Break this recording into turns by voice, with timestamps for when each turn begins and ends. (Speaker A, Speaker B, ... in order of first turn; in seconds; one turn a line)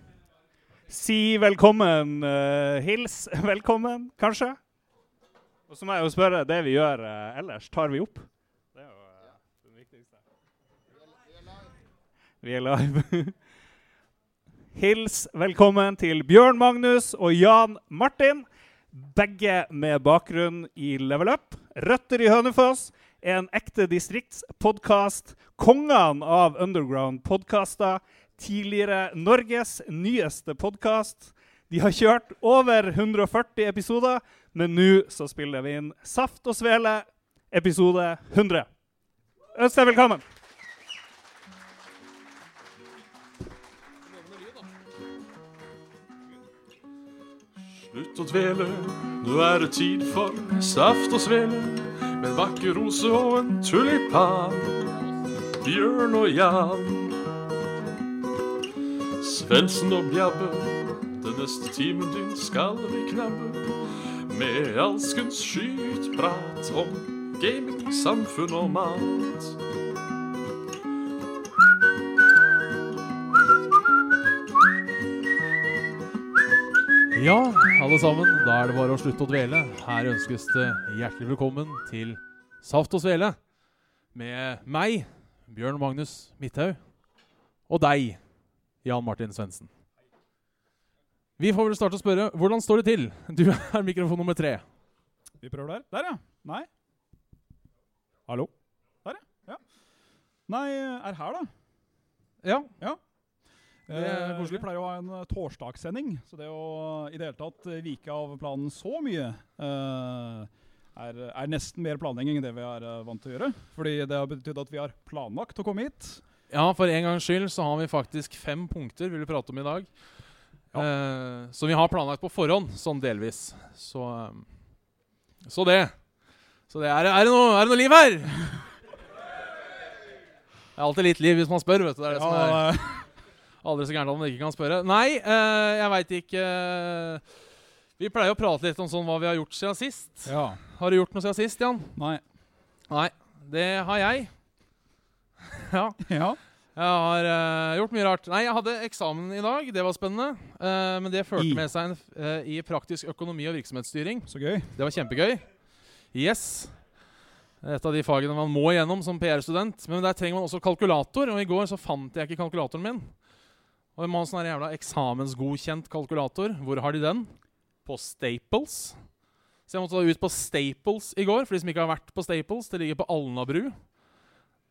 Speaker A: 0.9-4.6
Speaker A: 5.7-10.1
Speaker A: 12.4-13.3
Speaker A: 14.7-38.7
Speaker A: 39.5-40.2
Speaker B: 47.8-55.0
Speaker B: 55.6-57.3
Speaker B: 59.2-69.6
Speaker C: 77.1-83.4
Speaker C: 84.1-86.8
Speaker C: 87.7-88.2
Speaker C: 88.8-89.7
Speaker C: 91.4-94.6
Speaker D: 95.4-96.7
Speaker D: 99.0-99.6
Speaker D: 100.5-101.5
Speaker C: 102.4-102.7
Speaker D: 103.9-116.2
Speaker C: 103.9-104.7
Speaker C: 116.5-119.9
Speaker C: 120.7-124.5
Speaker C: 125.4-125.9
Speaker C: 126.7-128.4
Speaker C: 130.8-132.8
Speaker D: 132.1-133.1
Speaker C: 133.6-137.2
Speaker C: 138.0-142.0
Speaker D: 140.2-140.6
Speaker D: 142.0-142.2
Speaker C: 142.9-144.3
Speaker C: 145.4-146.0
Speaker D: 146.0-146.4
Speaker C: 146.8-155.4
Speaker D: 151.4-151.7
Speaker D: 154.3-154.7
Speaker C: 156.1-156.7
Speaker C: 157.6-163.1
Speaker C: 164.0-167.3
Speaker C: 167.8-169.0
Speaker C: 169.7-173.8